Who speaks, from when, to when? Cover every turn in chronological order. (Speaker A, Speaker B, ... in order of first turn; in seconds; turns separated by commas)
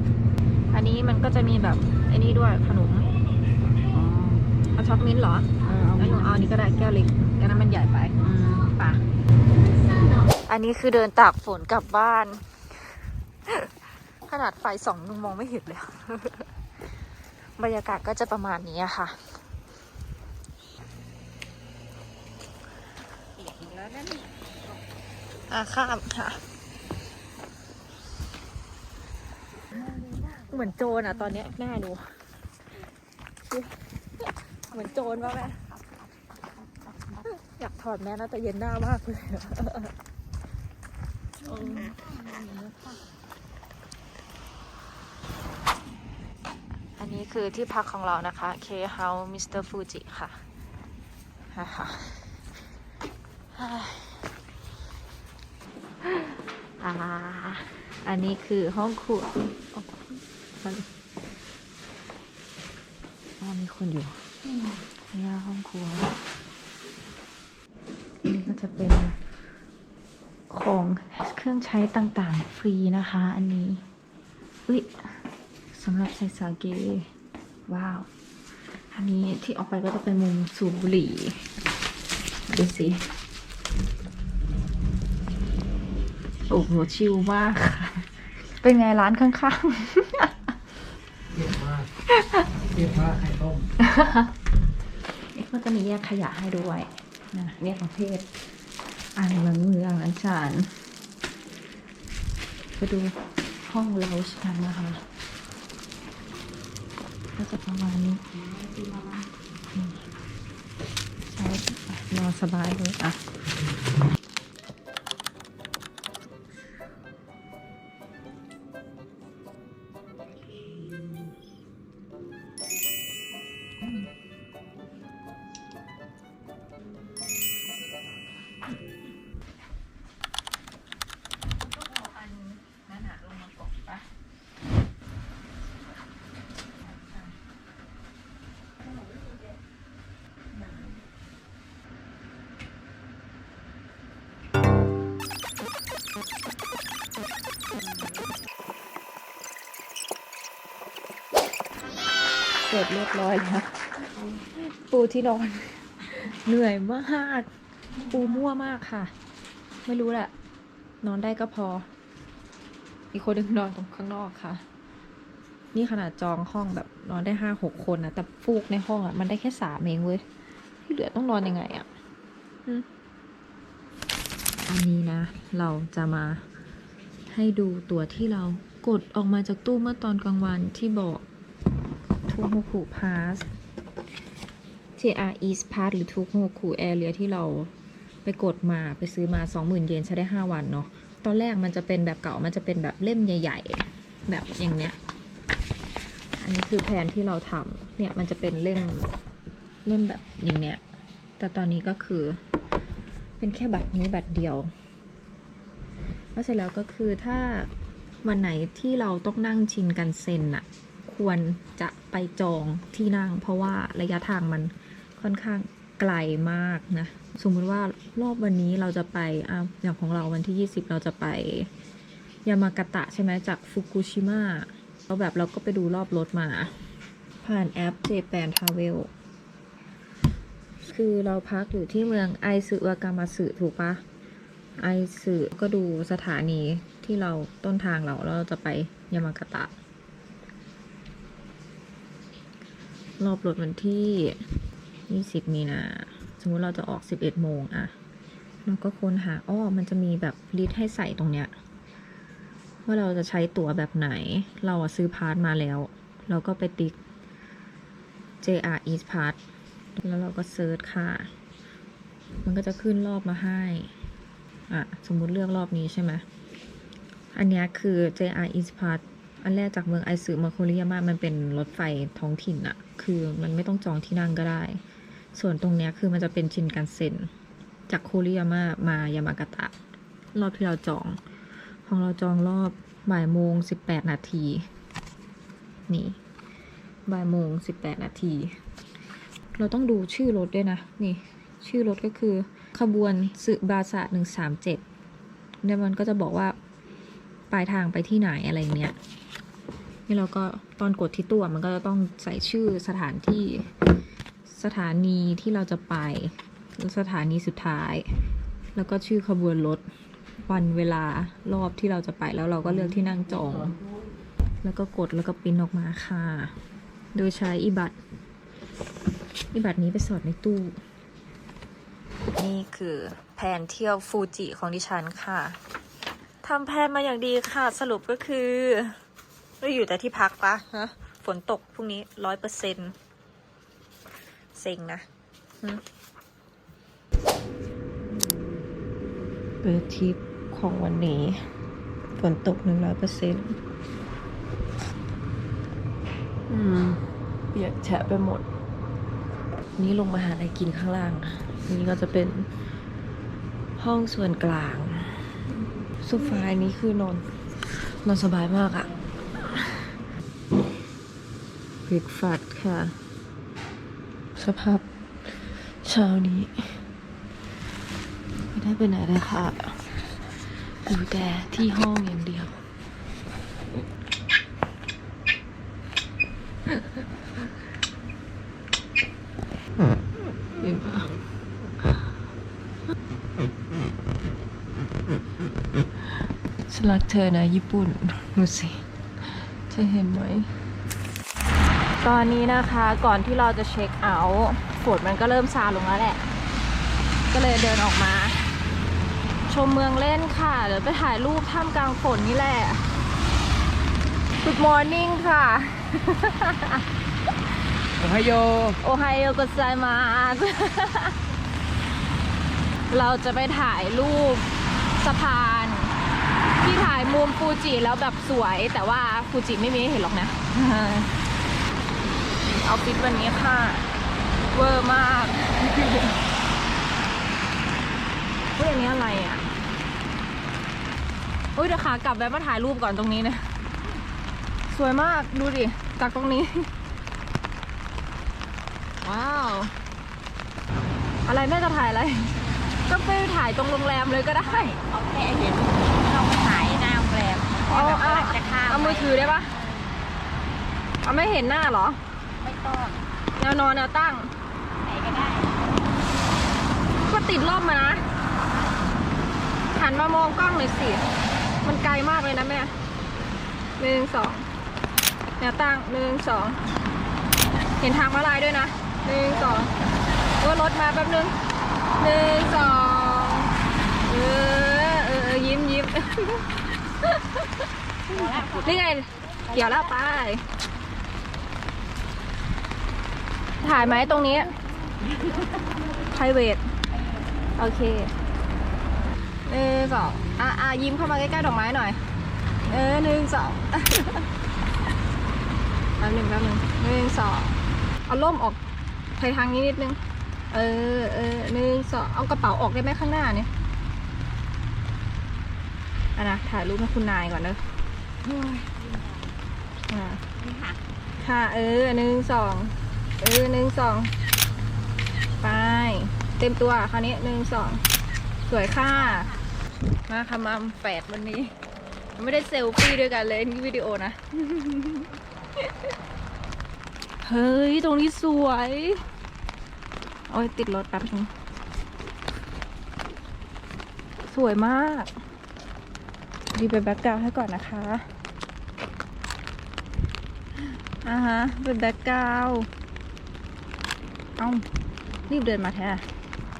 Speaker A: 0.7-3.1, Speaker B: 3.9-4.5, Speaker A: 4.8-8.2, Speaker B: 5.6-6.5, Speaker B: 8.2-8.8, Speaker A: 10.5-12.6, Speaker A: 14.3-16.5, Speaker A: 17.6-19.3, Speaker B: 23.4-24.4, Speaker A: 25.5-26.4, Speaker A: 30.5-32.1, Speaker A: 34.7-35.6, Speaker A: 37.3-39.9, Speaker A: 41.5-41.9, Speaker B: 41.5-43.0, Speaker A: 47.0-50.4, Speaker A: 51.5-52.3, Speaker A: 53.5-54.3, Speaker A: 56.0-60.9, Speaker A: 63.4-64.2, Speaker A: 65.1-66.1, Speaker A: 68.2-69.2, Speaker A: 70.5-73.8, Speaker A: 74.7-75.2, Speaker A: 75.7-77.1, Speaker A: 77.7-78.1, Speaker A: 78.9-81.4, Speaker A: 82.5-83.1, Speaker A: 86.5-88.1, Speaker A: 88.6-90.3, Speaker C: 91.3-91.9, Speaker A: 92.2-92.5, Speaker C: 92.7-93.7, Speaker A: 93.8-94.3, Speaker A: 95.3-98.3, Speaker A: 99.2-100.7, Speaker A: 102.8-105.0, Speaker A: 107.4-108.2, Speaker B: 108.4-109.3, Speaker A: 111.3-113.2, Speaker A: 131.7-134.0, Speaker A: 136.9-137.3, Speaker A: 152.6-153.9, Speaker A: 154.6-157.5, Speaker A: 158.1-159.1, Speaker A: 159.8-160.3, Speaker A: 161.0-161.9, Speaker A: 163.1-164.6, Speaker A: 165.7-170.2, Speaker A: 170.8-171.9, Speaker A: 174.7-176.4, Speaker A: 177.3-181.2, Speaker A: 182.3-183.5, Speaker A: 185.0-187.7, Speaker A: 188.2-195.0, Speaker A: 196.4-199.1, Speaker A: 199.8-200.8, Speaker A: 201.4-202.4, Speaker A: 203.4-204.7, Speaker A: 206.3-207.7, Speaker A: 208.2-221.7, Speaker A: 222.5-226.7, Speaker A: 227.4-229.1, Speaker A: 230.9-234.0, Speaker A: 234.8-239.7, Speaker A: 243.2-244.4, Speaker A: 245.1-247.9, Speaker A: 248.7-251.5, Speaker A: 252.9-257.0, Speaker A: 258.4-259.4, Speaker A: 260.0-261.3, Speaker A: 262.4-263.9, Speaker A: 264.7-266.2, Speaker A: 267.3-274.8, Speaker A: 275.4-277.3, Speaker A: 277.9-279.7, Speaker A: 280.3-281.2, Speaker A: 281.9-284.7, Speaker A: 285.9-286.2, Speaker A: 287.1-288.6, Speaker A: 289.6-294.8, Speaker A: 295.6-296.6, Speaker A: 297.5-299.0, Speaker A: 300.1-303.7, Speaker A: 304.5-308.1, Speaker A: 308.8-309.8, Speaker A: 310.4-313.8, Speaker A: 314.6-316.6, Speaker A: 317.1-318.0, Speaker A: 319.5-320.8, Speaker A: 322.4-325.6, Speaker A: 326.4-329.0, Speaker A: 329.6-333.0, Speaker A: 334.6-335.1, Speaker A: 339.6-341.5, Speaker A: 342.2-343.6, Speaker A: 346.5-347.0, Speaker A: 347.5-348.4, Speaker A: 349.8-352.5, Speaker A: 353.8-355.2, Speaker A: 356.0-357.3, Speaker A: 357.9-358.9, Speaker A: 361.9-363.0, Speaker A: 364.4-364.8, Speaker A: 365.4-366.8, Speaker A: 368.6-369.8, Speaker A: 370.9-372.6, Speaker A: 380.6-381.1, Speaker A: 386.7-388.8, Speaker A: 389.7-390.5, Speaker A: 392.0-396.2, Speaker A: 397.3-398.5, Speaker A: 399.5-402.8, Speaker A: 404.4-406.9, Speaker C: 408.0-408.8, Speaker A: 408.8-411.2, Speaker A: 412.9-415.9, Speaker A: 416.6-421.1, Speaker A: 422.5-423.9, Speaker A: 424.5-426.1, Speaker A: 428.6-429.4, Speaker A: 431.6-433.5, Speaker A: 434.7-436.7, Speaker A: 439.0-439.7, Speaker A: 441.3-442.3, Speaker A: 442.9-444.8, Speaker B: 444.4-450.0, Speaker A: 447.7-449.5, Speaker A: 451.0-452.0, Speaker B: 452.4-453.1, Speaker A: 453.4-454.3, Speaker B: 454.8-455.6, Speaker A: 457.1-458.0, Speaker A: 459.7-461.0, Speaker A: 461.6-462.7, Speaker A: 463.8-464.5, Speaker A: 465.4-466.6, Speaker A: 467.8-469.7, Speaker B: 469.4-469.7, Speaker A: 470.4-471.4, Speaker A: 472.0-473.5, Speaker A: 474.1-477.5, Speaker B: 478.1-478.8, Speaker A: 478.1-480.4, Speaker B: 479.4-479.9, Speaker A: 483.6-484.5, Speaker A: 486.1-486.6, Speaker A: 487.6-488.1, Speaker A: 489.5-492.0, Speaker A: 492.6-494.3, Speaker A: 496.0-498.6, Speaker A: 499.2-500.0, Speaker A: 500.5-503.5, Speaker A: 506.2-507.6, Speaker B: 508.2-509.4, Speaker A: 509.9-510.2, Speaker B: 510.3-510.8, Speaker A: 511.2-514.1, Speaker A: 515.4-517.8, Speaker A: 518.5-519.3, Speaker B: 518.9-519.5, Speaker A: 520.1-521.5, Speaker A: 522.2-525.1, Speaker A: 527.2-529.0, Speaker A: 530.3-531.3, Speaker A: 534.3-535.1, Speaker A: 536.5-538.1, Speaker A: 541.0-542.7, Speaker A: 544.4-544.6, Speaker A: 545.3-546.0